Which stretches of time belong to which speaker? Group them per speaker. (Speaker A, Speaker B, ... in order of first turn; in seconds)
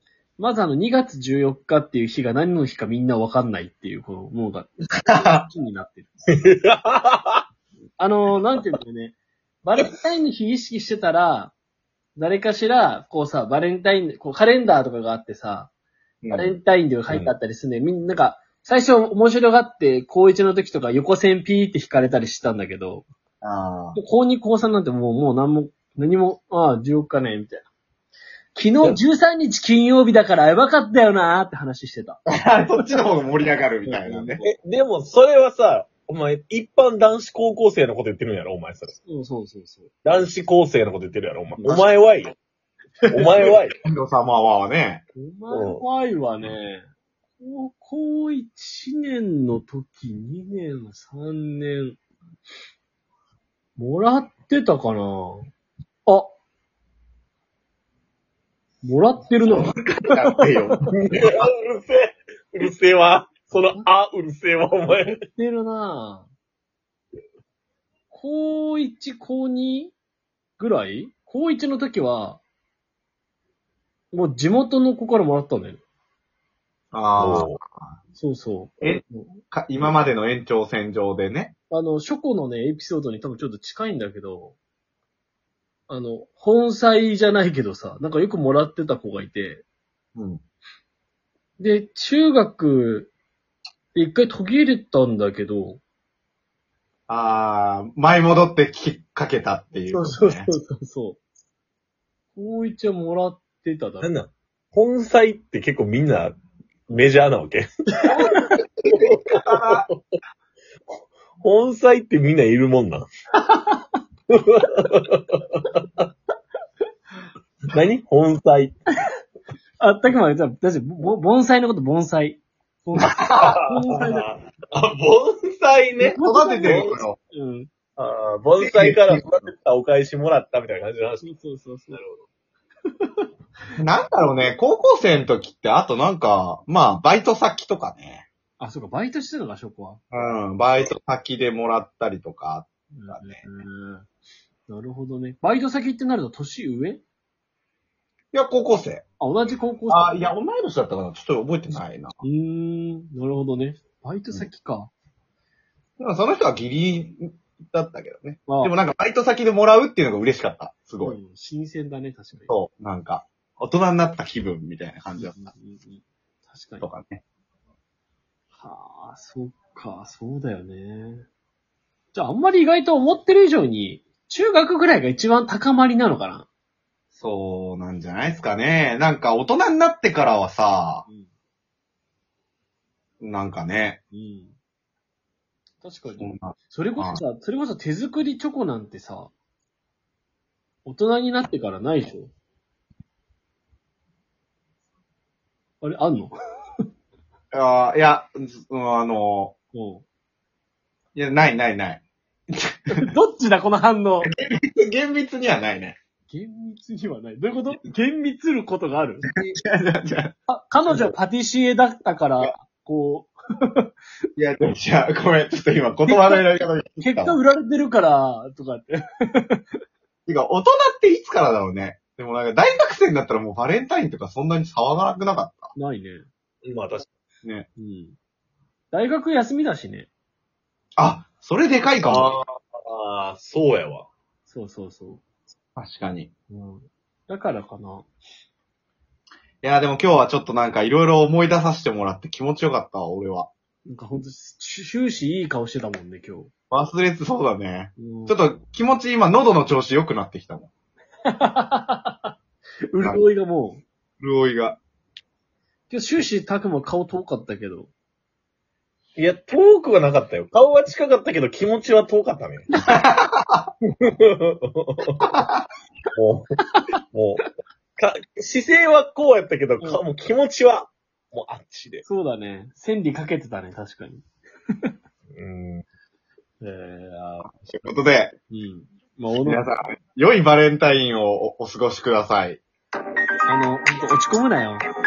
Speaker A: 0.4-6.3, 8.0-11.5, 12.2-15.7, 16.3-23.1, 23.9-27.7, 28.6-32.2, 33.9-34.5, 39.0-40.0, 45.1-46.9, 47.4-52.0, 53.8-55.5, 56.1-56.3, 58.8-59.9, 64.9-66.3, 68.1-70.0, 70.6-72.4, 74.1-75.8, 78.2-79.3, 81.7-84.6, 85.9-89.6, 91.6-93.1, 93.9-95.8, 99.9-101.2, 102.3-104.1, 108.1-108.6, 113.4-113.8, 119.8-124.3, 126.0-127.7, 131.2-132.0, 133.0-133.3, 138.6-140.0, 142.9-144.1, 144.7-147.0, 149.2-150.3, 152.2-154.9, 158.5-158.7, 161.0-162.5, 165.2-166.9, 168.6-171.3, 172.1-176.5, 184.1-184.6, 185.8-189.3, 190.8-192.3, 195.8-196.3, 199.7-200.0, 202.9-204.3, 206.3-209.3, 210.5-213.9, 216.1-219.6, 225.8-226.3, 227.8-228.2, 228.9-230.1, 234.5-235.2, 236.5-238.1, 243.9-246.5, 248.0-248.4, 251.3-252.3, 252.9-253.8, 255.9-257.9, 272.0-274.2, 276.6-277.5, 278.5-279.6, 283.5-284.9
Speaker B: 5.0-5.5, 16.2-16.6, 23.4-24.0, 32.4-34.4, 43.8-45.0, 59.5-61.0, 76.9-78.0, 78.8-81.5, 90.2-90.4, 97.1-100.5, 108.3-109.9, 123.2-123.6, 126.2-127.2, 128.6-129.2, 133.8-138.3, 140.1-143.4, 148.3-149.0, 149.9-152.2, 156.0-161.2, 162.5-165.5, 166.8-167.2, 177.2-181.1, 183.2-184.0, 186.2-187.2, 197.5-199.6, 201.2-203.1, 204.2-206.0, 209.2-210.3, 210.9-211.2, 214.4-217.4, 220.3-225.7, 231.0-232.3, 235.8-236.3, 239.6-243.5, 246.7-250.7, 254.2-254.8, 262.9-263.7, 265.2-265.7, 277.5-278.4, 279.5-282.6
Speaker C: 6.5-7.4, 34.4-39.0, 40.0-42.4, 43.1-43.8, 45.5-45.8, 61.0-65.2, 77.2-77.6, 104.0-106.4, 106.9-108.1, 108.9-110.0, 111.4-113.1, 114.3-116.0, 117.7-118.8, 123.3-127.0, 128.0-131.3, 131.9-132.2, 226.7-227.1, 232.0-234.1, 259.2-262.7, 264.0-265.2, 266.2-266.5, 267.1-267.5, 268.0-272.0, 275.4-275.9